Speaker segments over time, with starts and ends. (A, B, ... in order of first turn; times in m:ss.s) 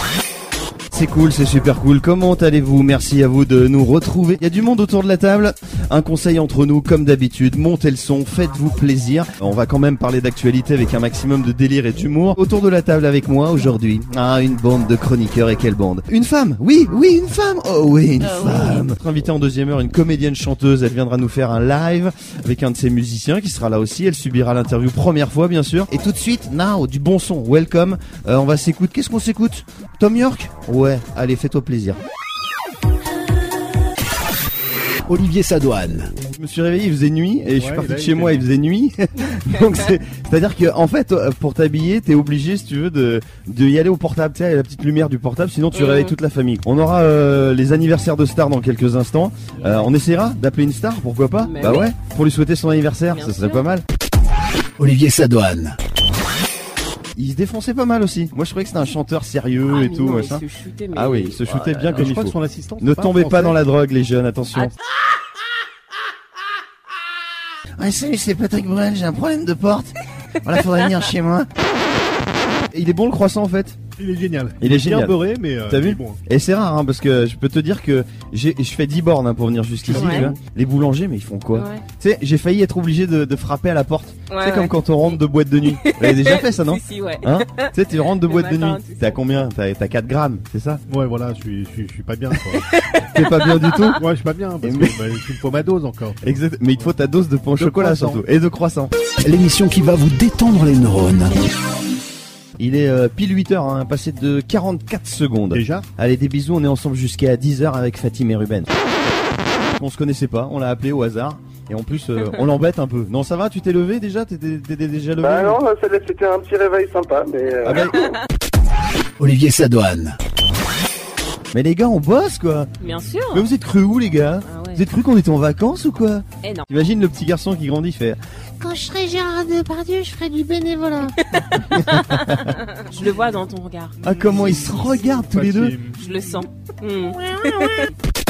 0:00.9-0:32.0 A
0:35.1-0:36.1 B
0:36.3-0:53.8 A
0:37.5-0:38.4 C
0:45.7-0:46.2 D
0:51.4-0:51.9 D
0:53.1-0:53.7 D
0:54.8-0:55.8 B
0:57.2-1:04.7 A
0:59.7-1:01.9 D
1:01.9-1:03.6 C
1:07.8-1:11.5 A
1:12.7-1:13.8 A
1:13.9-1:16.2 C
1:14.6-1:15.2 A
1:15.7-1:30.8 A
1:19.9-1:20.4 D
1:21.5-1:21.8 D
1:24.3-1:29.2 D
1:30.9-1:32.7 C
1:32.6-1:34.0 D
1:33.0-1:34.0 A
1:34.0-1:36.2 C
1:34.6-1:35.0 A
1:36.2-1:38.9 A
1:37.6-1:38.2 C
1:39.2-1:41.4 B
1:42.6-1:48.7 A
1:45.5-1:45.9 C
1:49.7-1:55.6 A
1:55.2-1:58.1 E
1:57.6-1:58.0 A
1:57.8-1:58.1 D
1:59.2-2:00.2 B
2:01.5-2:02.7 A
2:02.8-2:03.5 D
2:03.3-2:08.2 A
2:04.4-2:04.8 D
2:08.8-2:11.1 F
2:11.2-2:15.2 D
2:12.0-2:12.5 A
2:14.0-2:15.8 A
2:15.2-2:16.0 C
2:16.0-2:17.9 D
2:17.5-2:17.8 F